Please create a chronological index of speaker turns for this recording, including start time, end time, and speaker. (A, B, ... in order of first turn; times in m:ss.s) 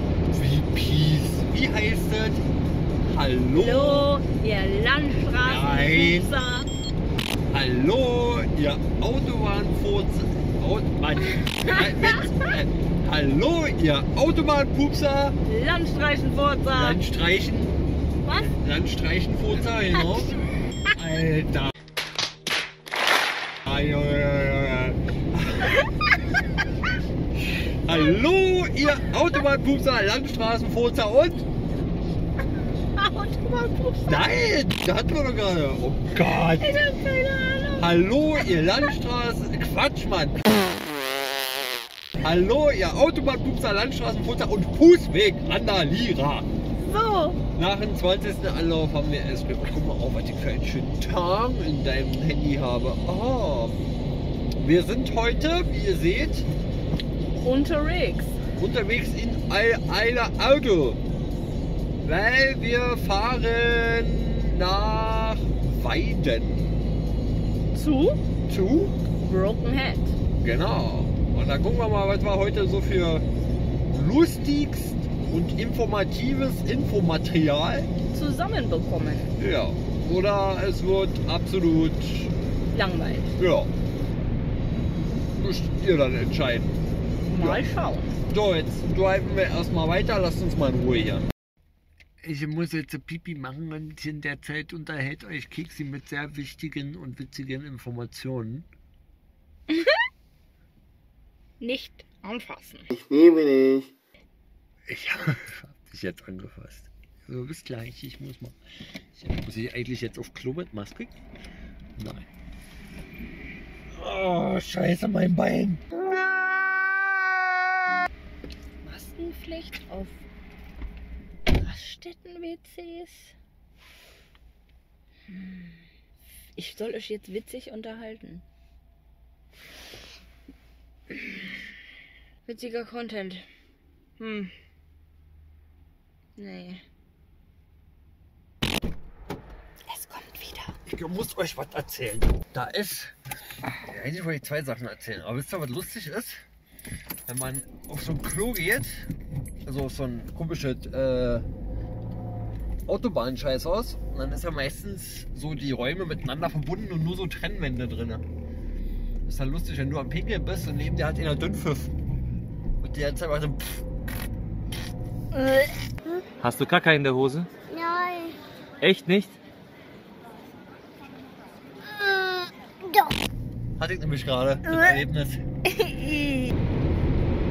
0:00.3-0:02.4 A
0:03.0-0:04.1 A
0:03.5-0:06.7 B
0:05.4-0:06.3 A
0:07.5-0:15.4 A
0:11.6-0:12.0 B
0:15.4-0:17.0 B
0:16.7-0:17.8 A
0:18.2-0:18.5 B
0:18.4-0:20.4 A
0:20.9-0:21.7 A
0:23.6-0:25.8 A
0:27.8-0:31.4 A
0:33.0-0:34.3 B
0:34.0-0:36.7 A
0:36.2-0:37.9 B
0:37.8-0:40.4 A
0:42.2-0:46.5 A
0:46.8-0:47.4 B
0:47.5-0:53.9 A
0:54.6-0:56.5 A
0:57.4-0:58.4 B
0:58.6-1:01.0 A
1:02.0-1:06.8 A
1:07.7-1:08.2 B
1:08.5-1:08.9 A
1:09.2-1:10.1 B
1:10.4-1:13.2 A
1:13.9-1:17.9 A
1:18.1-1:19.3 B
1:19.4-1:22.3 A
1:22.7-1:23.4 B
1:23.4-1:23.7 A
1:25.4-1:27.6 A
1:27.2-1:28.2 B
1:28.3-1:31.3 A
1:32.2-1:38.7 A
1:39.7-1:40.0 B
1:41.6-1:42.9 B
1:43.0-1:43.8 C
1:44.9-1:48.5 A
1:49.2-1:51.1 A
1:52.0-1:52.3 A
1:54.0-1:56.4 A
1:58.8-2:00.2 B
2:01.5-2:03.3 B
2:05.3-2:05.7 B
2:06.5-2:08.4 B
2:12.4-2:13.4 B
2:14.2-2:14.5 B
2:16.4-2:16.8 B
2:19.9-2:20.7 B
2:20.8-2:23.1 A
2:23.8-2:26.4 A
2:27.3-2:29.1 A
2:29.6-2:31.5 A
2:32.9-2:38.2 A
2:39.2-2:41.9 A
2:42.8-2:43.8 A
2:45.3-2:45.6 B
2:46.4-2:47.5 C
2:48.8-2:49.4 C
2:53.8-2:55.4 A
2:55.7-2:56.5 B